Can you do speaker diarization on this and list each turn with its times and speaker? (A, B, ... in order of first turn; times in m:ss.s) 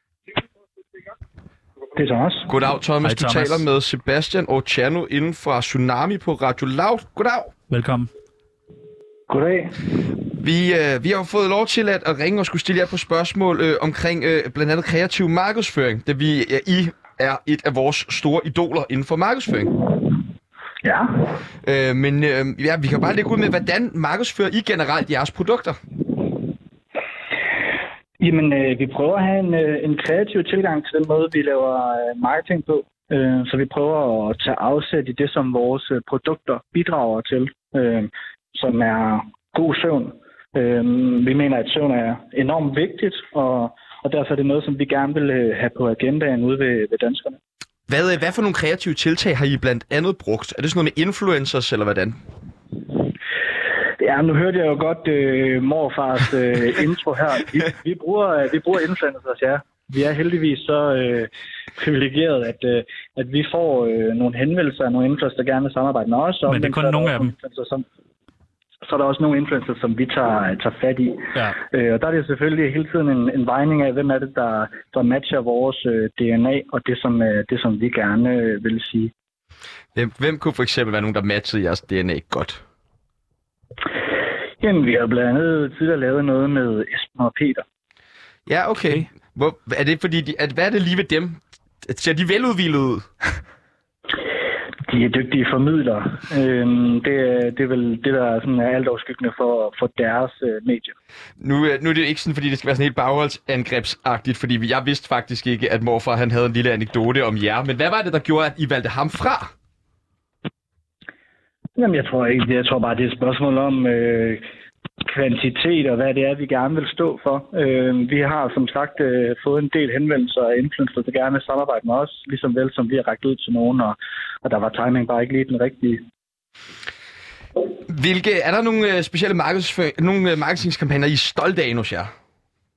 0:02.0-0:02.5 A
0:02.5-0:07.5 B
0:03.0-0:03.6 C
0:07.7-0:08.1 C
0:09.3-0:09.7 A
0:10.4-0:19.7 B
0:20.8-0:21.2 A
0:21.6-0:25.8 B
0:28.2-0:47.4 A
0:47.9-0:52.2 B
0:54.0-1:07.8 A
1:06.5-1:07.3 C
1:08.8-1:19.1 A
1:19.9-1:22.6 B
1:24.6-1:27.6 A
1:28.5-1:33.1 B
1:28.8-1:29.0 C
1:34.9-1:40.9 A
1:41.4-1:49.5 B
1:51.8-1:54.4 A
1:55.0-2:06.0 A
2:07.9-2:12.1 B